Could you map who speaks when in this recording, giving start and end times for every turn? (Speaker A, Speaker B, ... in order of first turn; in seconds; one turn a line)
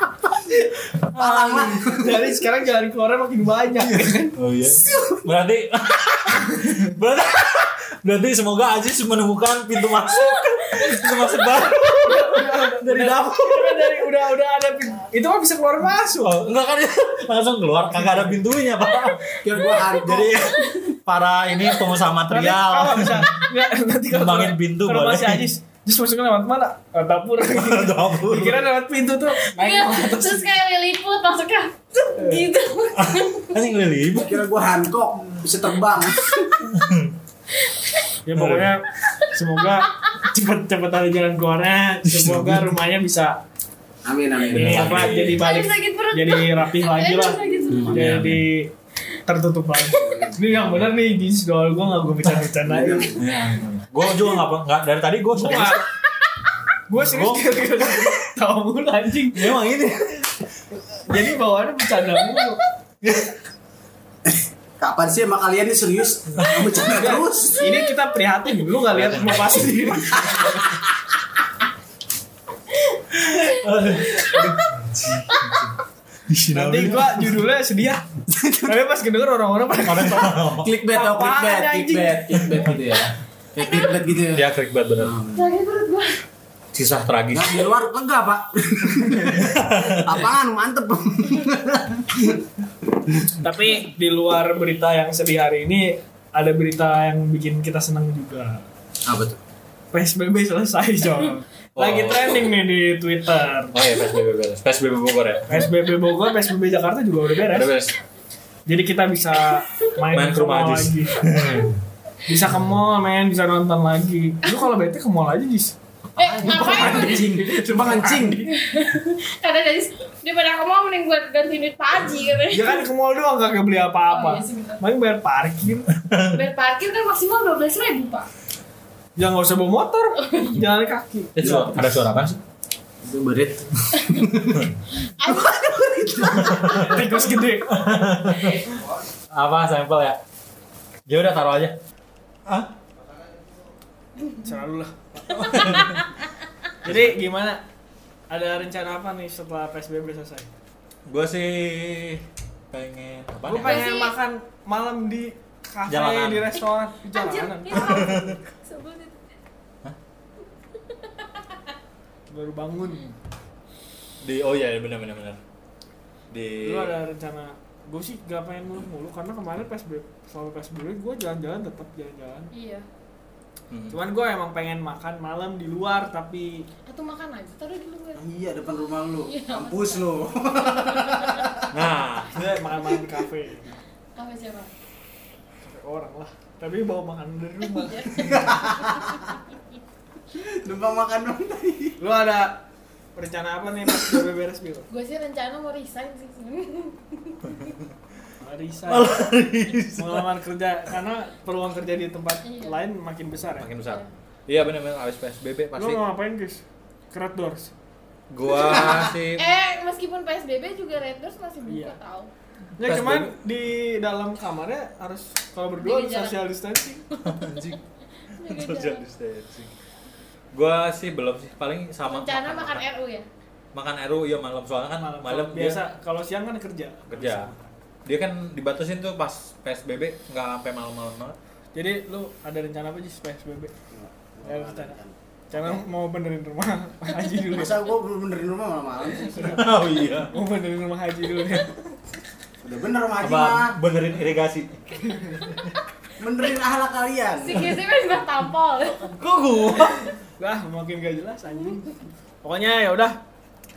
Speaker A: 0.5-0.7
Speaker B: 1.1-1.9
Speaker C: 1.1-2.1
Speaker A: 1.6-4.3
Speaker B: 4.4-13.9
Speaker C: 4.8-5.2
Speaker D: 10.1-12.2
Speaker A: 12.0-16.4
Speaker B: 16.2-19.2
Speaker A: 17.9-18.4
Speaker D: 19.0-20.9
Speaker C: 19.4-20.6
Speaker B: 21.1-23.3
Speaker A: 22.3-30.5
Speaker B: 24.1-25.5
Speaker B: 27.5-28.6
Speaker D: 29.4-33.5
Speaker A: 32.2-32.4
Speaker B: 33.0-34.5
Speaker C: 34.1-36.7
Speaker B: 36.7-37.1
Speaker D: 37.6-38.0
Speaker A: 38.2-43.4
Speaker B: 38.4-38.7
Speaker B: 42.0-42.8
Speaker C: 44.0-45.1
Speaker B: 44.4-45.5
Speaker A: 44.5-48.7
Speaker D: 45.2-48.3
Speaker C: 47.7-47.9
Speaker B: 47.7-48.4
Speaker A: 49.3-53.1
Speaker C: 50.0-50.4
Speaker C: 52.6-53.2
Speaker B: 53.1-55.8
Speaker A: 55.4-55.9
Speaker A: 56.9-62.6
Speaker B: 57.0-58.1
Speaker B: 59.4-59.9
Speaker D: 62.2-62.5
Speaker B: 63.0-63.3
Speaker C: 64.2-67.7
Speaker A: 66.8-70.8
Speaker B: 68.9-69.8
Speaker C: 70.3-70.5
Speaker B: 73.2-75.7
Speaker D: 74.2-74.5
Speaker B: 76.3-77.4
Speaker A: 76.5-78.0
Speaker C: 78.3-78.8
Speaker A: 78.6-80.3
Speaker B: 79.8-80.7
Speaker C: 80.6-84.4
Speaker A: 80.9-82.6
Speaker B: 82.4-82.7
Speaker D: 83.6-84.0
Speaker B: 83.8-85.1
Speaker C: 85.0-85.4
Speaker D: 85.3-86.2
Speaker B: 86.7-87.7
Speaker C: 87.3-92.4
Speaker A: 89.1-89.4
Speaker B: 89.3-90.3
Speaker A: 93.4-98.6
Speaker C: 99.1-99.4
Speaker A: 99.9-103.8
Speaker B: 101.8-102.5
Speaker B: 103.7-105.7
Speaker A: 105.5-107.7
Speaker B: 107.5-107.9
Speaker A: 108.7-111.2
Speaker B: 110.1-111.8
Speaker A: 112.3-115.8
Speaker D: 116.2-117.3
Speaker C: 116.2-118.4
Speaker A: 116.4-118.5
Speaker D: 118.5-122.8
Speaker A: 122.5-125.9
Speaker D: 124.1-124.8
Speaker B: 126.0-126.4
Speaker D: 126.3-128.3
Speaker A: 129.2-131.8
Speaker D: 130.2-130.6
Speaker B: 131.4-132.4
Speaker C: 133.0-137.0
Speaker D: 135.2-135.9
Speaker A: 136.3-137.8
Speaker B: 136.3-138.7
Speaker B: 139.3-140.2
Speaker B: 141.1-141.8
Speaker B: 142.4-142.7
Speaker A: 144.4-145.9
Speaker B: 145.4-145.9
Speaker D: 145.6-146.1
Speaker A: 146.8-147.6
Speaker B: 146.8-147.2
Speaker A: 148.3-150.5
Speaker B: 151.1-153.9
Speaker A: 153.4-158.3
Speaker D: 153.6-154.2
Speaker B: 155.9-156.6
Speaker D: 157.1-159.2
Speaker B: 157.7-158.4
Speaker D: 160.9-161.6
Speaker A: 162.3-163.1
Speaker B: 164.2-165.4
Speaker B: 166.3-167.0
Speaker A: 166.6-172.5
Speaker D: 172.5-172.9
Speaker B: 173.7-174.0
Speaker A: 173.9-176.7
Speaker D: 176.9-178.2
Speaker C: 178.2-181.7
Speaker D: 179.3-181.7
Speaker B: 181.7-182.5
Speaker A: 182.3-183.8
Speaker D: 184.2-184.7
Speaker A: 185.6-188.4
Speaker D: 187.7-189.3
Speaker C: 188.2-189.3
Speaker C: 190.3-191.9
Speaker A: 192.0-192.6
Speaker A: 193.2-194.9
Speaker D: 194.9-197.7
Speaker A: 198.4-199.2
Speaker B: 198.9-200.2
Speaker A: 200.0-203.7
Speaker D: 202.4-202.8
Speaker B: 203.6-206.0
Speaker A: 205.8-207.7
Speaker B: 208.3-209.5
Speaker C: 208.7-209.1
Speaker D: 209.4-212.3
Speaker A: 211.7-212.0
Speaker A: 212.8-217.0
Speaker B: 212.8-213.3
Speaker D: 215.8-216.4
Speaker D: 217.1-217.8
Speaker B: 217.2-217.8
Speaker D: 218.3-219.0
Speaker B: 218.4-219.7
Speaker B: 220.5-222.8
Speaker D: 222.0-223.2
Speaker B: 223.7-225.8
Speaker A: 225.0-227.7
Speaker B: 227.1-227.5
Speaker B: 228.1-231.3
Speaker A: 231.7-233.7
Speaker C: 233.9-235.8
Speaker A: 234.4-235.0
Speaker A: 235.5-237.8
Speaker C: 237.5-239.7
Speaker A: 239.2-242.0
Speaker B: 239.5-240.3
Speaker C: 242.6-243.8
Speaker B: 243.2-244.8
Speaker A: 245.0-245.5
Speaker C: 246.2-247.7
Speaker D: 247.4-249.1
Speaker B: 248.8-250.1
Speaker A: 249.7-253.2